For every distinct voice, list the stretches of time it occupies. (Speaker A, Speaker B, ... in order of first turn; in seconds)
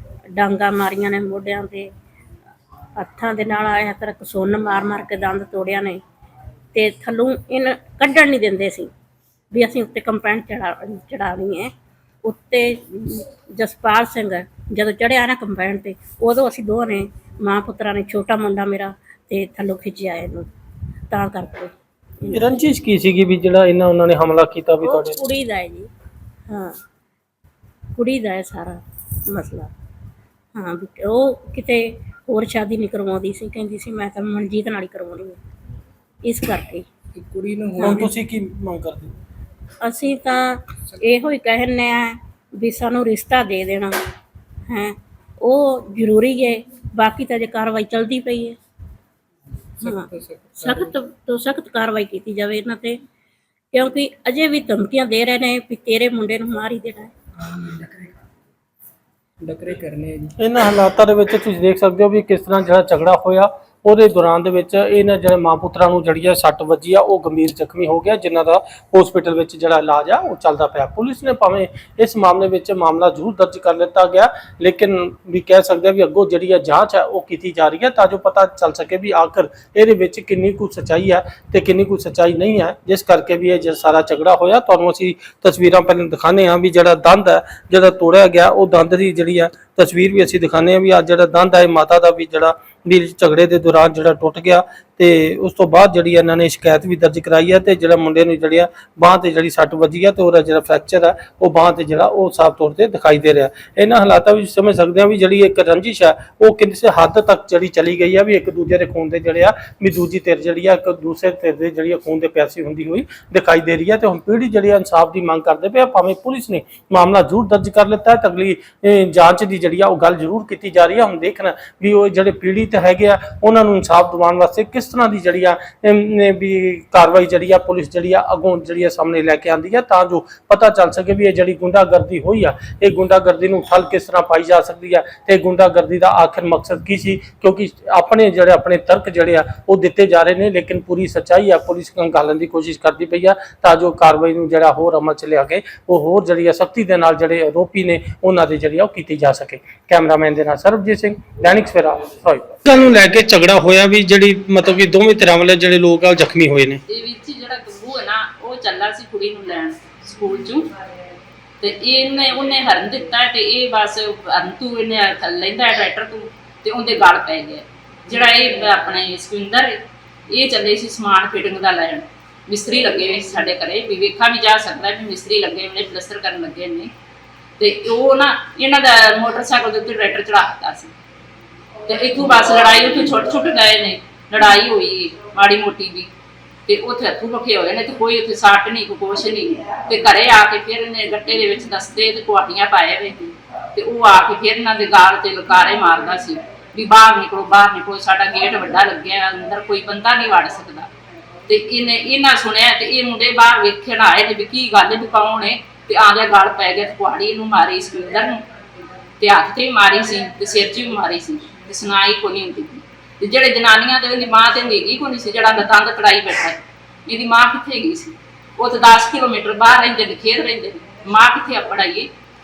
Speaker A: 0.3-1.9, 3.0-6.0, 6.7-8.9, 9.5-11.7, 12.2-20.5, 21.1-21.7, 24.8-25.9, 26.5-26.7, 27.9-29.7, 30.5-35.4, 36.2-36.9, 39.8-43.9, 44.7-48.6, 50.6-53.0, 53.7-57.1
Speaker B: 22.3-25.2, 37.8-39.1, 60.4-156.8
Speaker C: 37.1-38.1, 49.8-50.9, 57.5-58.0, 59.4-60.3
Speaker D: 156.9-160.7, 161.6-169.7, 170.3-176.9, 177.6-180.9, 181.9-186.1, 186.7-200.9, 201.5-208.4, 209.2-222.1